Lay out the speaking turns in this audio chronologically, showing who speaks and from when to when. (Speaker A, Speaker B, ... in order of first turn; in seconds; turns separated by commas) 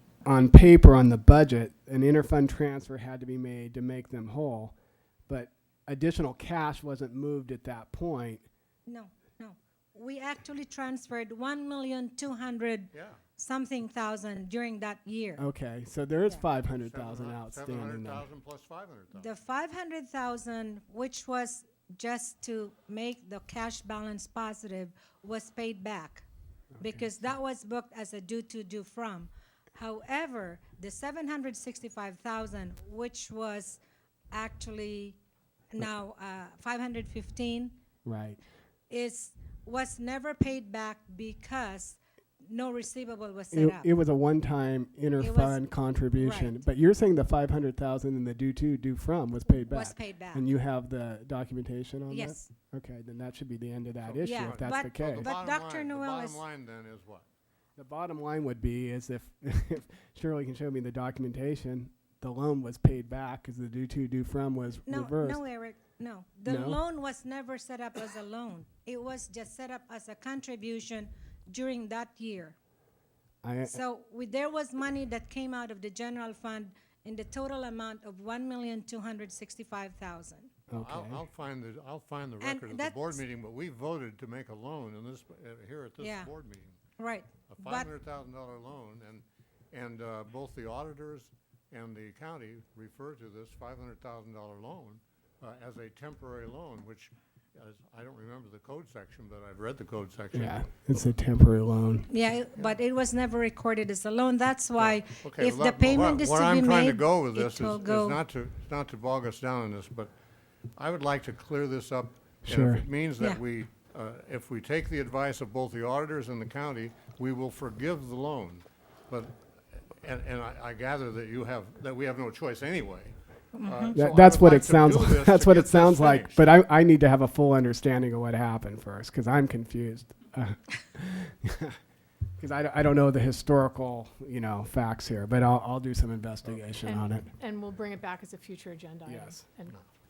Speaker A: 0.2-4.7, Speaker A: 5.3-8.4, Speaker B: 8.9-15.4, Speaker C: 12.9-13.2, Speaker A: 15.4-18.2, Speaker C: 16.8-19.3, Speaker B: 19.2-26.2, Speaker B: 26.8-33.8, Speaker B: 34.3-35.2, Speaker B: 35.7-37.7, Speaker A: 38.0-38.4, Speaker B: 38.9-43.9, Speaker A: 43.5-55.3, Speaker B: 45.2-45.6, Speaker B: 46.1-46.6, Speaker B: 49.6-50.5, Speaker B: 52.1-52.5, Speaker C: 54.0-57.2, Speaker B: 54.2-56.4, Speaker A: 57.8-65.4, Speaker B: 64.9-72.5, Speaker A: 66.5-66.8, Speaker A: 73.4-73.8, Speaker B: 73.7-80.5, Speaker A: 80.7-81.2, Speaker C: 80.7-86.8, Speaker B: 82.4-83.2, Speaker B: 86.0-86.3, Speaker B: 87.0-87.9, Speaker C: 87.5-100.6, Speaker A: 100.3-102.1, Speaker B: 102.1-108.2, Speaker C: 104.8-110.1, Speaker C: 110.8-119.3, Speaker A: 112.5-112.8, Speaker C: 119.9-126.5, Speaker B: 123.5-123.9, Speaker A: 123.9-131.8, Speaker A: 132.4-137.3, Speaker D: 136.8-139.8, Speaker A: 139.1-139.4